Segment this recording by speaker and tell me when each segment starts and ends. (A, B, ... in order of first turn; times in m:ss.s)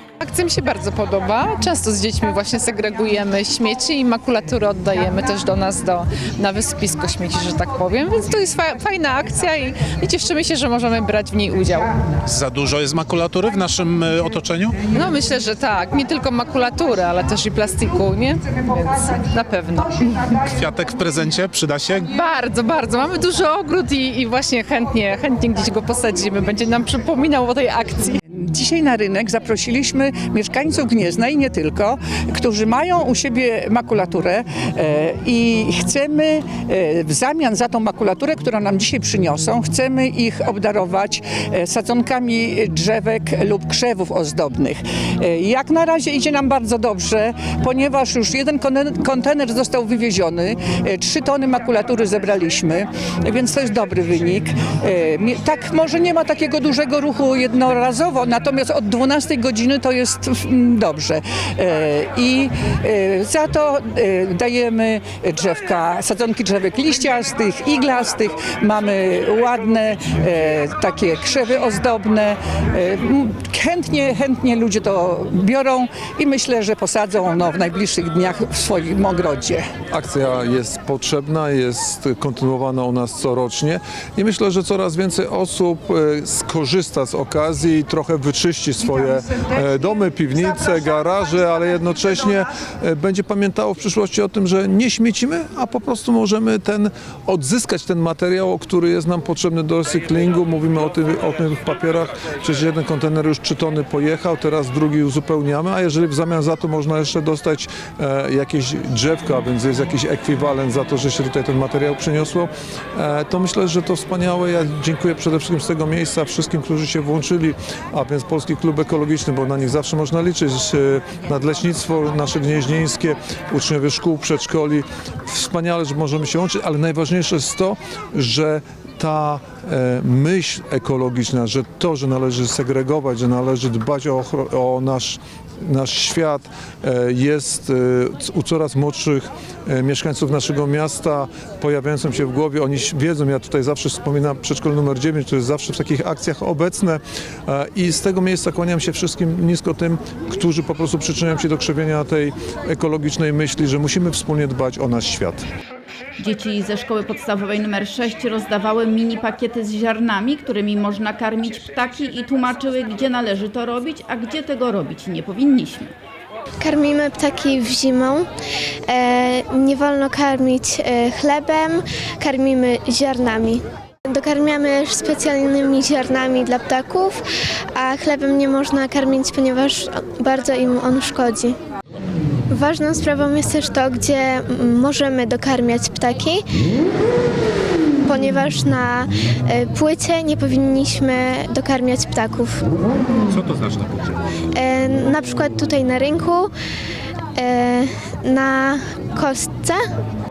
0:00.2-0:11.9 A
0:12.2-0:14.8 B
0:14.8-0:20.5 A
0:20.5-0:22.1 B
0:22.1-0:28.2 A
0:28.3-1:19.7 C
1:19.9-2:35.5 D
2:36.2-2:45.9 E
2:46.6-2:48.3 F
2:48.9-3:01.6 F
3:02.5-3:06.5 F
3:08.0-3:12.6 F
3:13.3-3:14.2 B
3:14.6-3:16.5 F
3:17.4-3:19.8 F